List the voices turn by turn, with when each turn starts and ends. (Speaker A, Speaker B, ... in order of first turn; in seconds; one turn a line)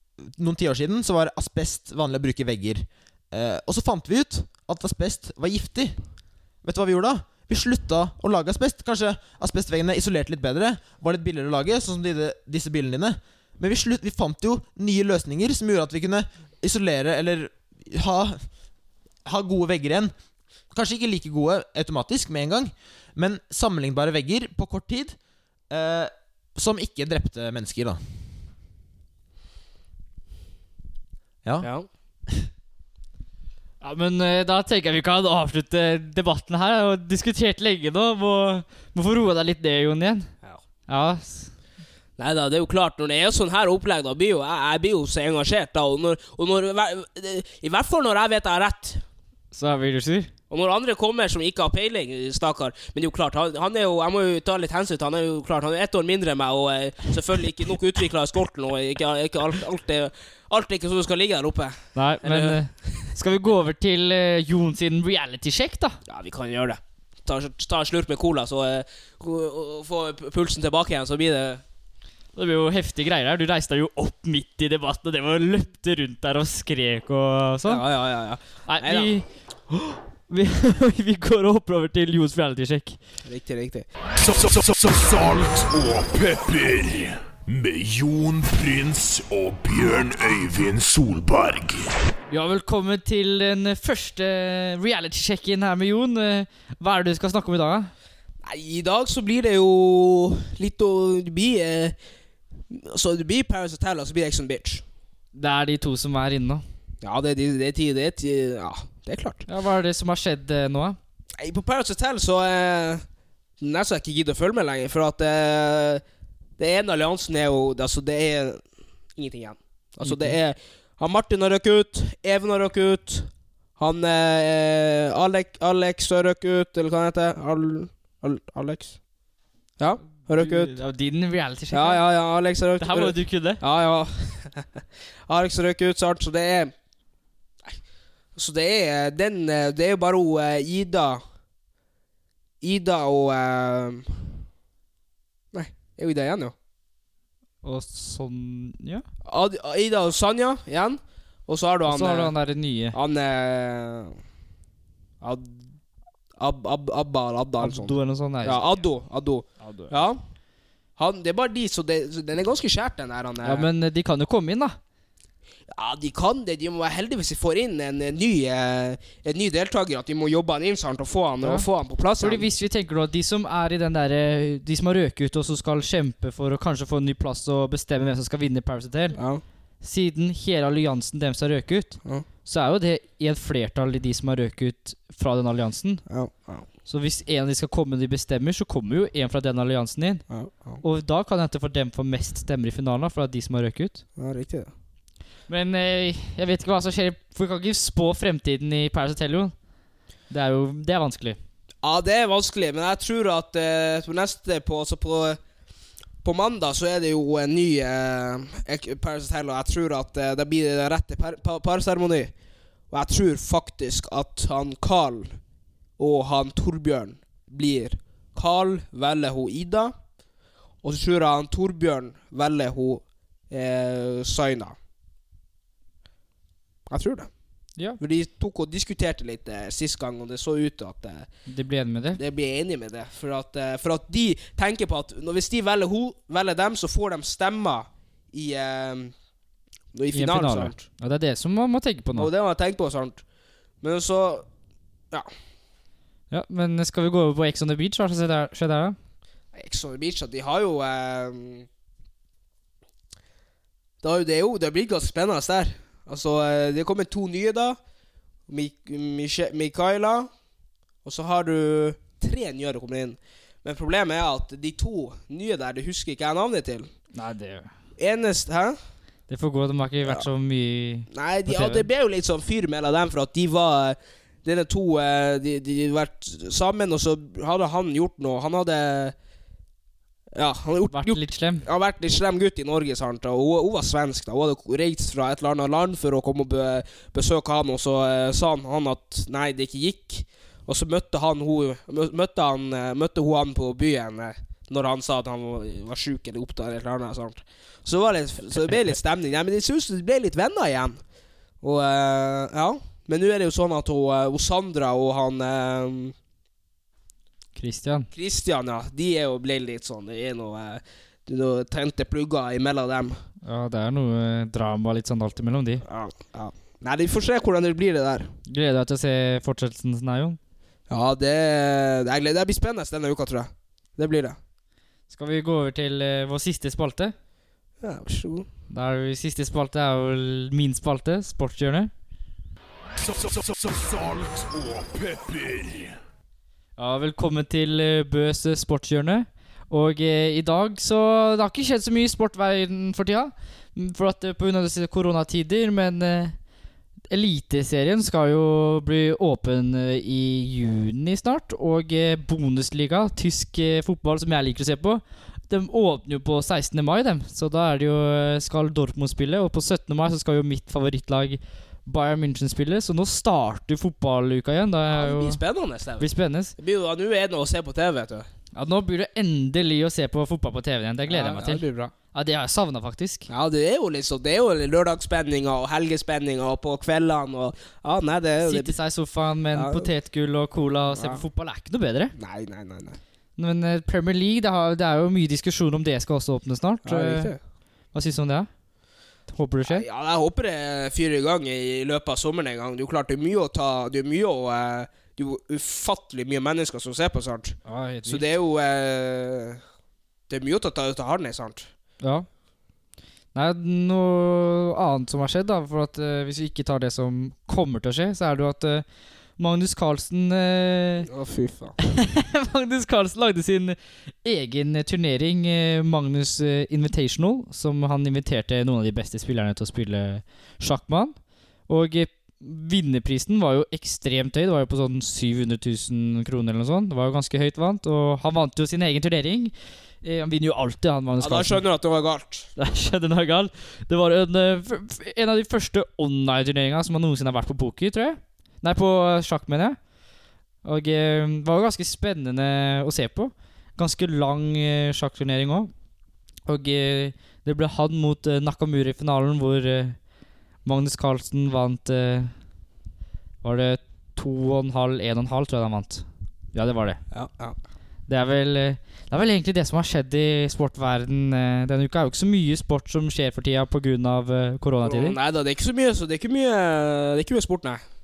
Speaker A: 0.2-6.1
Speaker A: 6.6-18.5
Speaker A: 19.2-20.1
Speaker A: 20.7-25.2
Speaker A: 25.7-28.0
Speaker A: 31.4-31.7
Speaker B: 31.6-31.9
Speaker C: 33.8-40.3
Speaker C: 40.9-41.5
Speaker B: 42.2-49.0
Speaker C: 49.5-50.3
Speaker B: 50.5-62.9
Speaker C: 62.0-66.0
Speaker B: 66.1-71.6
Speaker C: 72.3-77.8
Speaker B: 77.7-79.2
Speaker C: 78.7-83.0
Speaker B: 83.2-83.9
Speaker D: 84.2-91.9
Speaker C: 92.3-97.9
Speaker B: 98.4-102.0
Speaker B: 102.7-104.8
Speaker C: 105.3-106.6
Speaker B: 107.0-109.5
Speaker C: 109.5-111.0
Speaker B: 111.4-113.0
Speaker B: 113.6-116.0
Speaker B: 116.6-129.0
Speaker C: 120.0-120.4
Speaker B: 129.8-130.8
Speaker C: 130.2-132.1
Speaker B: 131.7-136.7
Speaker C: 132.8-133.6
Speaker B: 138.3-141.2
Speaker B: 142.6-144.4
Speaker B: 145.5-146.6
Speaker C: 147.6-149.1
Speaker B: 149.2-152.4
Speaker C: 151.9-153.0
Speaker B: 152.9-154.2
Speaker B: 155.2-155.7
Speaker B: 156.4-160.2
Speaker C: 157.6-158.8
Speaker C: 159.6-160.0
Speaker B: 161.0-163.7
Speaker C: 163.4-164.8
Speaker B: 165.7-172.5
Speaker C: 172.2-179.2
Speaker B: 179.2-179.4
Speaker C: 179.8-186.1
Speaker B: 186.1-186.7
Speaker C: 186.9-190.3
Speaker B: 190.3-190.8
Speaker C: 190.8-194.0
Speaker B: 194.2-194.7
Speaker C: 195.5-199.6
Speaker C: 200.3-201.4
Speaker B: 201.8-205.4
Speaker B: 206.2-212.3
Speaker B: 212.9-215.4
Speaker B: 216.0-219.9
Speaker B: 220.8-224.8
Speaker B: 226.9-231.3
Speaker C: 231.5-232.2
Speaker B: 232.2-239.2
Speaker B: 239.9-240.8
Speaker C: 240.1-242.3
Speaker B: 242.2-243.2
Speaker B: 243.8-244.5
Speaker C: 246.3-249.0
Speaker B: 249.5-251.7
Speaker B: 254.0-257.8
Speaker B: 258.5-260.3
Speaker B: 261.0-266.9
Speaker C: 267.1-267.7
Speaker B: 268.0-268.8
Speaker C: 269.3-271.9
Speaker B: 271.1-279.1
Speaker B: 280.3-301.0
Speaker C: 280.9-281.7
Speaker B: 301.6-306.1
Speaker C: 307.6-308.1
Speaker B: 308.1-313.2
Speaker C: 313.4-315.8
Speaker B: 315.9-318.3
Speaker C: 318.5-320.4
Speaker B: 320.9-324.4
Speaker C: 325.1-327.1
Speaker B: 327.8-328.5
Speaker C: 328.7-331.9
Speaker D: 333.0-335.9
Speaker C: 336.8-346.4
Speaker C: 347.1-365.4
Speaker B: 364.9-368.3
Speaker C: 366.0-366.6
Speaker C: 368.6-373.3
Speaker B: 371.1-371.9
Speaker B: 373.3-378.8
Speaker C: 378.4-382.1
Speaker B: 379.5-379.9
Speaker B: 380.9-381.2
Speaker B: 382.2-383.0
Speaker C: 383.4-387.4
Speaker B: 386.8-387.4
Speaker C: 387.9-388.5
Speaker C: 389.3-389.9
Speaker B: 389.7-399.6
Speaker C: 397.7-398.3
Speaker B: 400.3-401.7
Speaker C: 402.0-402.3
Speaker C: 403.3-411.1
Speaker B: 411.1-411.8
Speaker C: 411.9-431.6
Speaker B: 431.2-432.5
Speaker C: 432.6-439.8
Speaker C: 440.6-445.7
Speaker C: 446.4-450.1
Speaker C: 450.6-452.4
Speaker C: 453.4-457.0
Speaker B: 457.1-457.6
Speaker C: 458.1-465.2
Speaker B: 464.8-467.8